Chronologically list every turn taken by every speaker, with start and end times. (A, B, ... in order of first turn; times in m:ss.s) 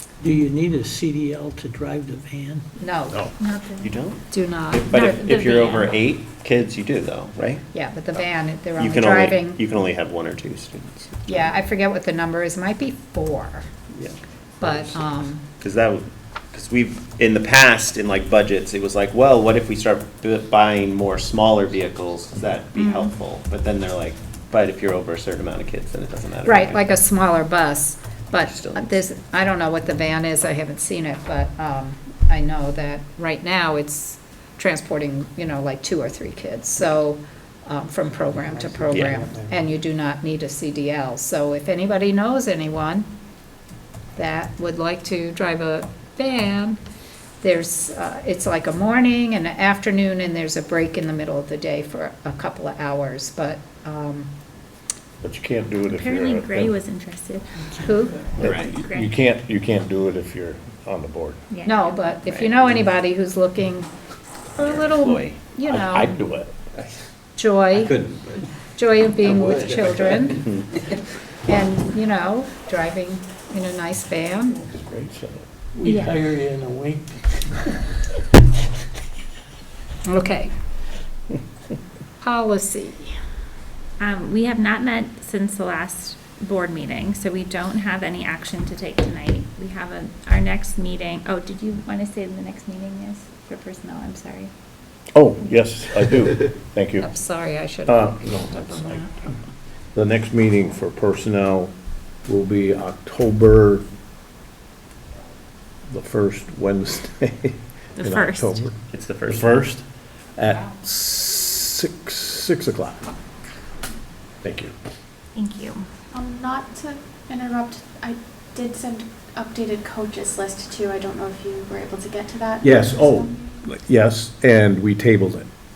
0:00.2-0:02.6 A
0:02.8-0:03.2 B
0:03.4-0:03.9 C
0:03.8-0:08.2 D
0:04.3-0:05.0 B
0:04.9-0:05.9 C
0:07.7-0:09.6 B
0:08.8-0:11.5 D
0:11.3-0:13.6 B
0:14.6-0:15.4 B
0:15.6-0:26.8 D
0:22.8-0:23.1 C
0:26.4-0:43.1 B
0:28.3-0:29.0 D
0:38.7-0:39.4 A
0:44.2-0:46.8 B
0:47.4-0:54.3 B
0:55.2-0:56.8 E
0:55.9-0:59.1 C
0:57.8-0:58.2 B
0:58.4-1:01.4 E
0:58.4-0:58.7 D
1:01.5-1:02.5 C
1:01.6-1:03.9 B
1:04.5-1:06.1 B
1:04.6-1:05.4 D
1:05.6-1:06.5 E
1:07.4-1:08.0 B
1:07.9-1:08.2 D
1:08.7-1:10.5 B
1:11.4-1:14.6 B
1:14.6-1:15.4 E
1:15.8-1:17.5 A
1:15.8-1:16.2 C
1:20.0-1:20.5 B
1:22.2-1:23.1 B
1:24.0-1:34.5 C
1:35.1-1:37.1 E
1:37.0-1:39.1 B
1:37.8-1:39.2 E
1:39.9-1:41.7 E
1:42.2-1:43.8 E
1:45.9-1:49.8 E
1:48.0-1:48.6 C
1:48.9-1:49.7 D
1:50.4-1:53.0 E
1:54.4-1:54.7 E
1:55.3-1:55.9 C
1:56.1-2:03.4 F
2:02.6-2:05.5 E